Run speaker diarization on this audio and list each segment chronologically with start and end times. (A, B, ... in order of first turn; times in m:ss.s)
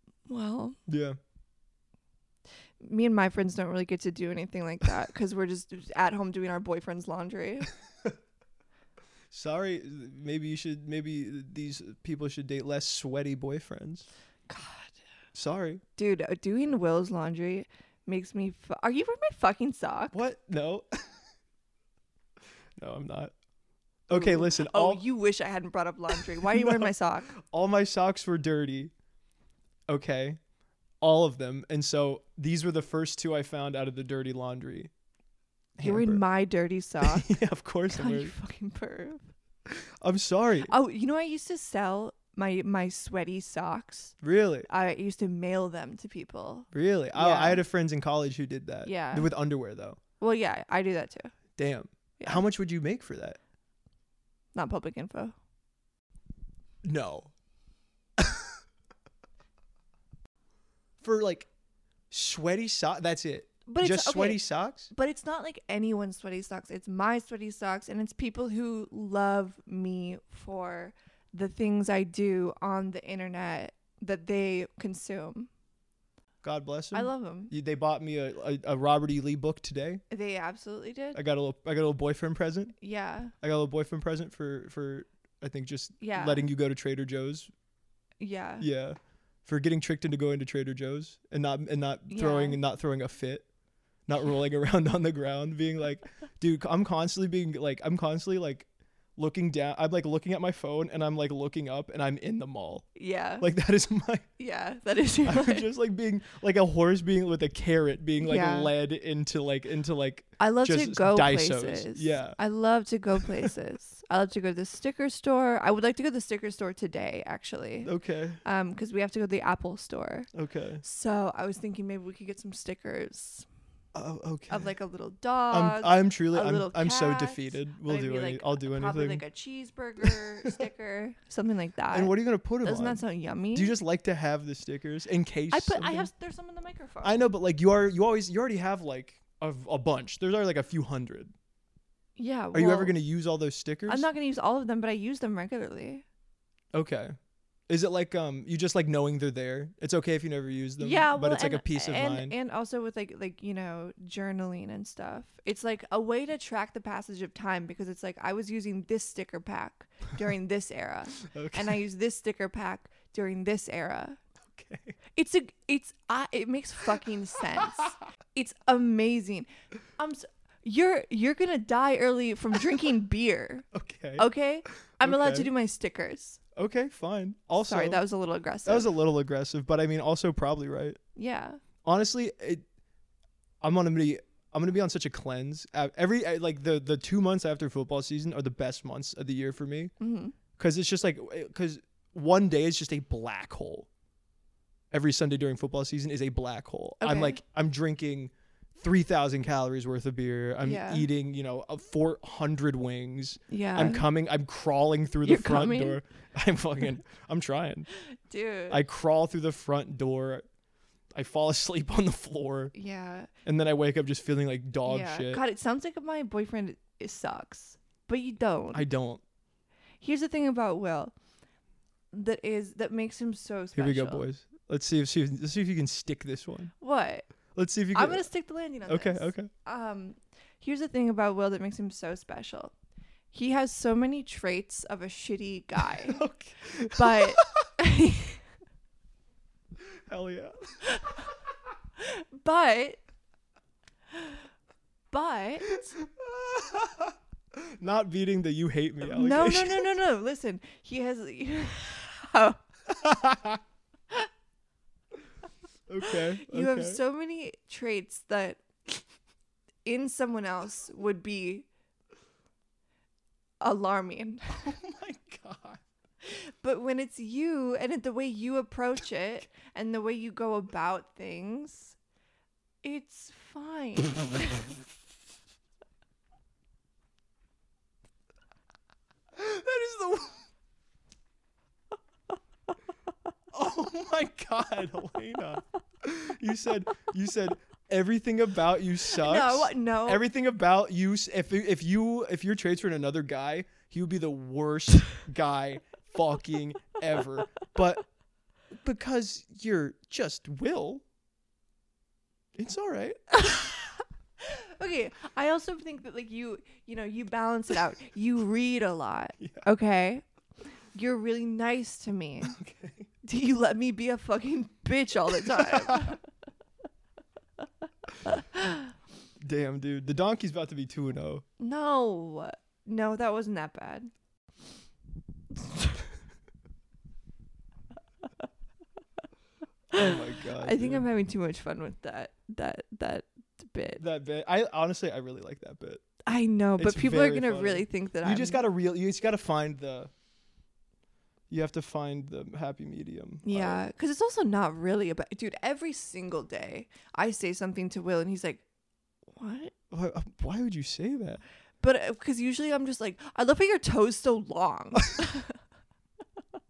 0:00.3-0:00.8 A
0:00.9-0:01.2 B
0:02.8-0:07.7 A
0:09.3-0:14.1 B
0:14.5-0:15.0 A
0:15.3-0:15.8 B
0:16.0-0:20.2 A
0:20.1-0:21.0 B
0:22.8-0:23.3 B
0:24.1-0:25.0 B
0:24.1-0:27.3 A
0:26.1-0:28.9 B
0:29.9-0:30.4 B
0:31.0-0:34.9 B
0:35.8-0:36.2 B
0:35.8-0:37.3 A
0:37.0-0:38.3 B
0:37.9-0:39.3 A
0:39.7-0:40.7 B
0:40.6-0:44.2 A
0:44.2-0:44.7 B
0:44.7-0:47.6 A
0:46.7-0:50.0 B
0:48.8-0:49.3 A
0:50.2-0:51.3 A
0:51.6-0:53.4 B
0:52.2-0:52.4 A
0:54.5-0:55.3 A
0:56.8-0:57.3 B
0:58.2-0:58.6 B
1:01.0-1:01.5 B
1:02.1-1:04.9 B
1:03.7-1:15.5 A
1:16.4-1:20.0 B
1:16.9-1:17.5 A
1:20.1-1:21.2 A
1:21.1-1:22.7 B
1:22.8-1:23.3 A
1:23.4-1:27.5 B
1:26.0-1:26.5 A
1:28.2-1:28.6 A
1:28.6-1:33.5 B
1:32.1-1:32.6 A
1:34.1-1:42.9 B
1:43.0-1:43.4 A
1:43.4-1:44.3 B
1:44.4-1:45.7 A
1:45.2-1:52.4 B
1:48.2-1:48.7 A
1:50.4-1:57.9 A
1:57.8-1:58.4 B
1:58.4-2:00.3 A
2:00.3-2:00.8 B
2:00.8-2:03.4 A
2:03.9-2:04.7 B
2:04.5-2:13.7 A
2:05.5-2:09.2 B
2:10.0-2:10.6 B
2:11.9-2:13.0 B
2:13.5-2:16.1 B
2:15.5-2:17.2 A
2:17.0-2:21.3 B
2:22.2-2:22.9 A
2:22.5-2:24.1 B
2:23.9-2:26.0 A
2:26.7-2:27.1 B
2:27.7-2:32.3 B
2:30.8-2:44.2 A
2:41.2-2:41.8 B
2:44.4-2:45.0 B
2:45.1-2:56.4 A
2:53.7-2:54.3 B
2:55.0-2:55.5 B
2:56.6-2:58.0 B
2:57.6-2:58.9 A
2:58.6-3:01.0 B
3:01.2-3:01.6 A
3:01.8-3:02.6 B
3:03.6-3:09.9 B
3:10.0-3:10.3 A
3:10.6-3:13.9 B
3:14.9-3:27.9 B
3:17.0-3:17.4 A
3:20.6-3:21.1 A
3:23.5-3:24.0 A
3:25.2-3:26.0 A
3:28.3-3:28.8 A
3:28.7-3:30.4 B
3:31.1-3:32.7 B
3:32.7-3:33.3 A
3:33.4-3:35.4 B
3:34.8-3:38.9 A
3:38.7-3:39.2 B
3:40.0-3:41.1 A
3:42.1-3:44.3 A
3:43.7-3:46.7 B
3:46.8-3:47.3 A
3:47.5-3:48.3 B
3:47.9-3:52.7 A
3:48.8-3:49.5 B
3:53.3-3:56.2 A
3:55.9-3:57.7 B
3:57.0-3:58.4 A
3:59.8-4:00.8 B
4:00.8-4:01.3 A
4:02.0-4:03.0 A
4:05.1-4:05.9 A
4:05.7-4:09.9 B
4:09.0-4:12.6 A
4:12.9-4:13.6 B
4:15.9-4:17.0 B
4:16.0-4:18.6 A
4:19.8-4:21.7 A
4:23.6-4:24.7 A
4:24.6-4:25.8 B
4:26.2-4:32.0 A
4:32.8-4:34.8 A
4:39.3-4:40.4 B
4:43.5-4:58.0 B
4:49.1-4:50.2 A
4:58.7-5:01.0 B
5:02.6-5:03.2 B
5:03.3-5:10.2 A
5:09.4-5:09.6 B
5:10.9-5:12.5 A
5:12.4-5:13.1 B
5:13.2-5:16.2 A
5:15.3-5:16.2 B
5:18.2-5:18.9 A
5:19.4-5:21.4 B
5:21.6-5:24.1 A
5:25.6-5:26.0 A
5:29.9-5:34.0 A
5:29.9-5:31.0 B
5:34.0-5:36.0 B
5:36.2-5:38.6 A
5:36.8-5:40.1 B
5:41.5-5:43.8 B
5:43.4-5:48.6 A
5:49.3-5:49.7 A
5:49.9-5:51.4 B
5:51.8-5:55.6 A